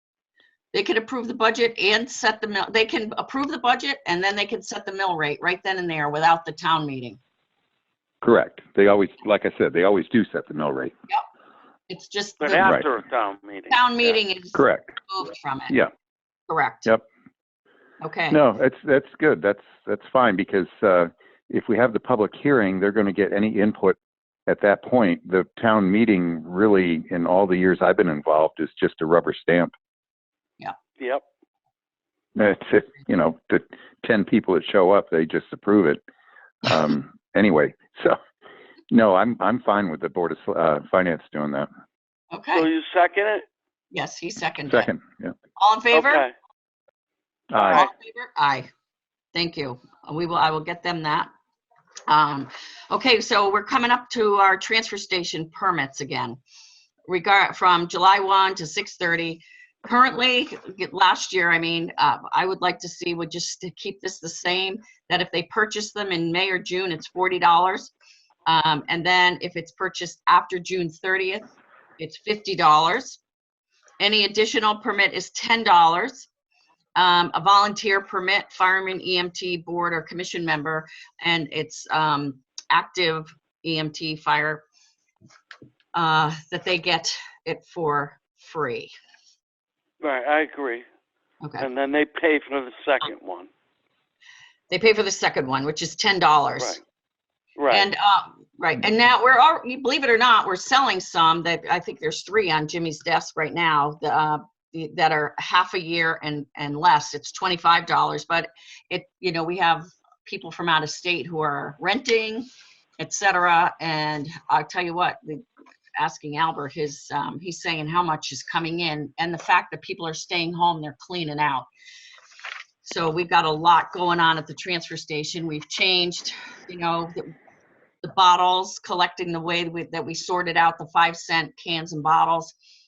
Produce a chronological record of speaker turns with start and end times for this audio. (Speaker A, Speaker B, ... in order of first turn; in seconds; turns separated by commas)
Speaker A: 0.7-7.2, Speaker B: 8.2-10.9, Speaker A: 11.9-12.7, Speaker C: 12.4-14.2, Speaker A: 13.7-15.8, Speaker B: 14.5-14.9, Speaker A: 16.5-16.9, Speaker A: 18.0-18.4, Speaker B: 18.3-29.7, Speaker B: 32.4-36.0, Speaker B: 36.6-38.2, Speaker B: 38.9-41.7, Speaker A: 42.3-42.7, Speaker C: 42.5-43.5, Speaker A: 43.9-44.9, Speaker B: 44.7-45.3, Speaker A: 45.5-46.2, Speaker C: 45.9-46.3, Speaker B: 47.5-47.9, Speaker C: 47.5-47.9, Speaker A: 47.6-48.7, Speaker A: 49.3-51.3, Speaker A: 52.1-56.4, Speaker A: 57.1-67.9, Speaker A: 68.5-73.2, Speaker A: 74.0-76.3, Speaker A: 77.0-84.6, Speaker A: 85.9-88.9, Speaker C: 90.0-90.8, Speaker A: 91.4-91.7, Speaker C: 91.6-93.5, Speaker A: 94.7-96.8, Speaker C: 97.6-97.9, Speaker A: 97.7-112.5, Speaker A: 113.0-115.4, Speaker A: 116.0-121.7, Speaker A: 122.8-127.3, Speaker A: 128.0-132.5